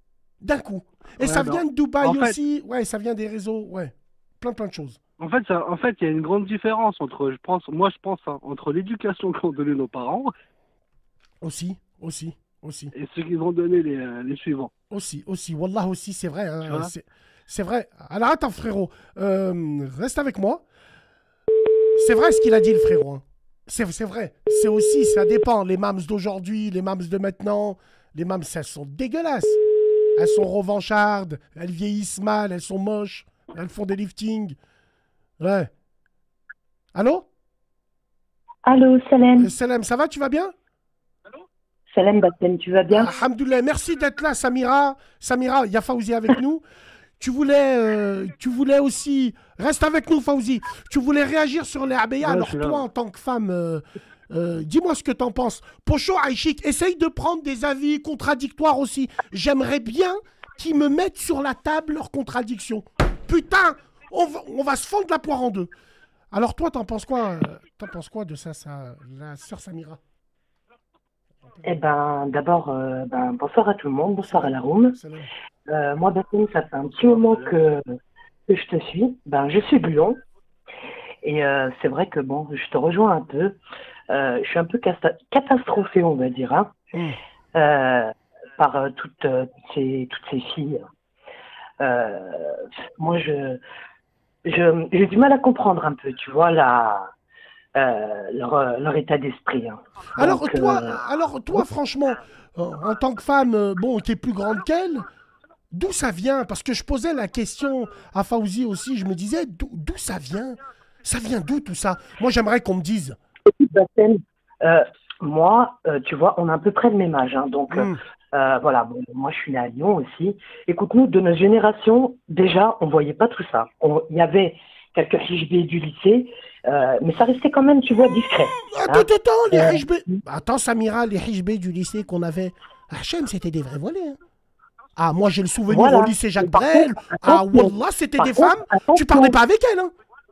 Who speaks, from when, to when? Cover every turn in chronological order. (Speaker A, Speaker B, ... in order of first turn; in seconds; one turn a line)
Speaker A: 0.4-5.0
Speaker B: 1.2-2.3
Speaker B: 5.2-10.3
Speaker A: 11.4-12.9
Speaker B: 12.9-14.7
Speaker A: 14.9-20.6
Speaker B: 16.6-16.9
Speaker A: 21.9-29.6
Speaker A: 30.1-34.5
Speaker A: 35.4-35.7
Speaker A: 36.9-37.2
Speaker C: 38.6-39.5
Speaker A: 39.4-40.5
Speaker C: 41.9-43.1
Speaker A: 42.9-46.6
Speaker A: 47.2-65.7
Speaker B: 52.2-52.8
Speaker A: 66.3-70.0
Speaker C: 71.6-75.0
Speaker A: 74.2-75.2
Speaker C: 75.7-77.8
Speaker C: 78.5-80.2
Speaker C: 81.2-83.6
Speaker C: 84.1-86.7
Speaker C: 87.5-90.9
Speaker C: 91.8-93.6
Speaker C: 94.5-97.1
Speaker C: 97.7-101.0
Speaker A: 100.2-105.0
Speaker A: 105.7-113.2
Speaker C: 113.5-130.2
Speaker A: 117.7-118.0
Speaker A: 128.7-134.2
Speaker A: 134.9-139.9
Speaker C: 135.7-139.3